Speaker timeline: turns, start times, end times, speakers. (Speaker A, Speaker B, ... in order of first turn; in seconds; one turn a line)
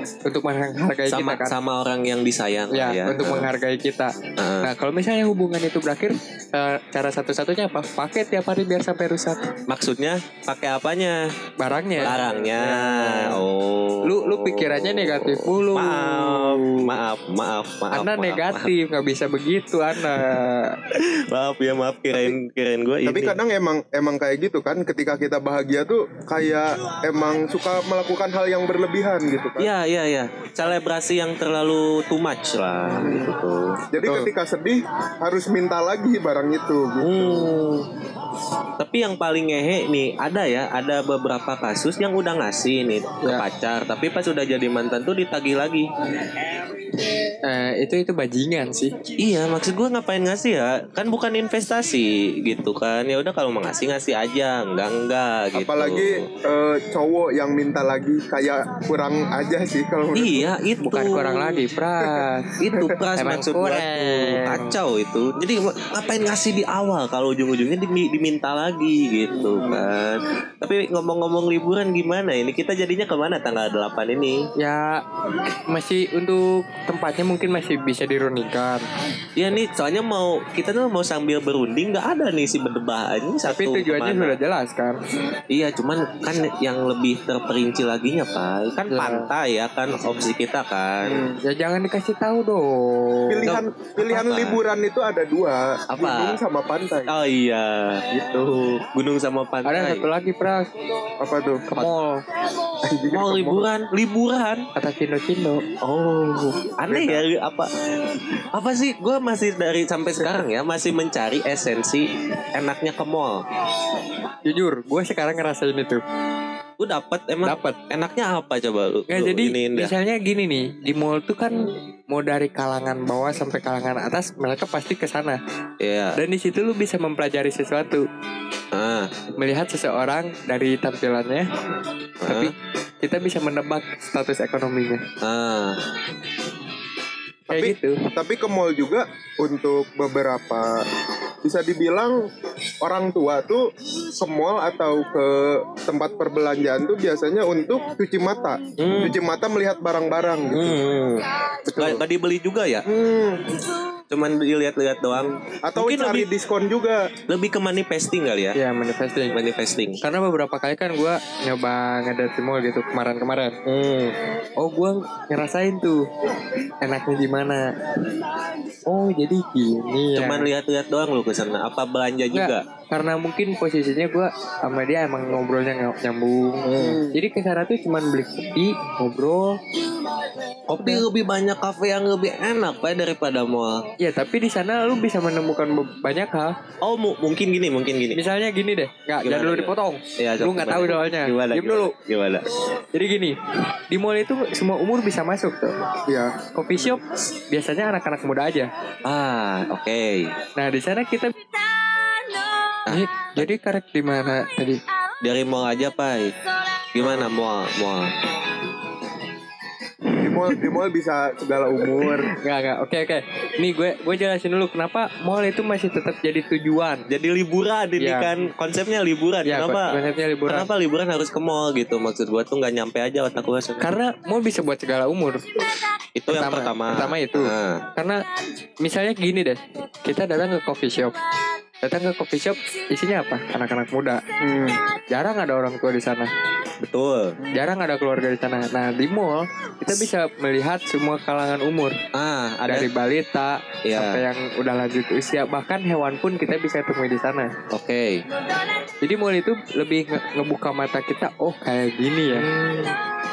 Speaker A: 0.2-1.5
Speaker B: 1.1-3.5
Speaker A: 2.7-9.4
Speaker B: 4.4-4.7
Speaker B: 9.7-11.2
Speaker A: 11.6-13.4
Speaker B: 12.0-18.7
Speaker A: 14.0-16.9
Speaker A: 17.9-20.8
Speaker B: 20.9-23.4
Speaker C: 23.1-29.7
Speaker B: 29.6-34.2
Speaker C: 32.9-33.3
Speaker C: 33.9-37.5
Speaker B: 37.0-37.9
Speaker B: 38.8-45.9
Speaker A: 47.4-48.9
Speaker B: 49.2-56.2
Speaker C: 55.5-60.5
Speaker B: 60.1-61.6
Speaker A: 60.8-62.5
Speaker B: 62.6-74.5
Speaker A: 63.2-64.7
Speaker C: 69.3-69.8
Speaker A: 74.6-75.0
Speaker A: 75.7-78.8
Speaker B: 79.4-84.4
Speaker A: 83.5-85.0
Speaker B: 85.5-91.2
Speaker A: 88.9-89.3
Speaker C: 91.0-91.4
Speaker A: 91.4-93.5
Speaker C: 93.3-97.1
Speaker B: 93.4-94.6
Speaker B: 95.9-96.4
Speaker B: 97.1-100.0
Speaker A: 99.6-100.7
Speaker C: 101.2-101.7
Speaker A: 101.7-102.2
Speaker C: 102.8-103.6
Speaker B: 103.1-104.7
Speaker A: 104.7-105.6
Speaker B: 105.8-107.7
Speaker C: 106.9-107.2
Speaker B: 108.5-113.4
Speaker A: 114.5-116.0
Speaker B: 116.8-119.9
Speaker A: 117.4-117.8
Speaker A: 119.1-125.4
Speaker B: 125.8-126.2
Speaker A: 126.2-128.1
Speaker B: 128.7-129.1
Speaker A: 129.4-131.4
Speaker B: 132.2-132.5
Speaker A: 132.2-135.0
Speaker B: 135.2-135.8
Speaker C: 137.5-140.8
Speaker A: 137.5-138.0
Speaker C: 141.4-142.2
Speaker C: 142.8-143.7
Speaker C: 144.2-150.8
Speaker B: 148.8-149.1
Speaker B: 150.5-151.2
Speaker C: 151.7-152.0
Speaker B: 151.8-152.8
Speaker C: 152.8-153.4
Speaker B: 154.1-156.3
Speaker C: 155.6-157.1
Speaker B: 157.3-158.6
Speaker A: 158.6-159.3
Speaker B: 159.3-160.0
Speaker A: 160.0-163.6
Speaker B: 163.7-164.1
Speaker A: 164.6-166.0
Speaker A: 166.8-167.7
Speaker A: 168.9-170.5
Speaker B: 170.1-172.6
Speaker A: 172.3-179.6
Speaker C: 176.7-177.2
Speaker B: 180.7-183.8
Speaker A: 180.8-181.0
Speaker A: 184.0-186.5
Speaker B: 186.8-188.2
Speaker A: 188.1-191.9
Speaker B: 189.2-192.4
Speaker A: 192.9-193.4
Speaker A: 193.9-195.7
Speaker A: 196.3-198.7
Speaker B: 199.0-200.3
Speaker A: 200.6-201.3
Speaker B: 202.8-203.4
Speaker A: 202.9-204.8
Speaker B: 205.2-206.3
Speaker B: 206.9-208.1
Speaker C: 210.2-212.3
Speaker A: 212.4-217.0
Speaker B: 217.1-219.9
Speaker A: 218.0-218.3
Speaker A: 219.4-220.7
Speaker B: 220.5-223.9
Speaker A: 223.8-225.4
Speaker B: 226.2-227.8
Speaker A: 226.3-228.2
Speaker A: 228.8-231.1
Speaker A: 231.8-234.2
Speaker C: 234.4-234.8
Speaker A: 235.1-236.3
Speaker B: 236.8-237.4
Speaker A: 237.5-241.9
Speaker B: 242.1-242.9
Speaker A: 242.7-247.5
Speaker B: 243.8-244.2
Speaker B: 247.7-248.2
Speaker A: 249.0-252.5
Speaker B: 252.3-252.9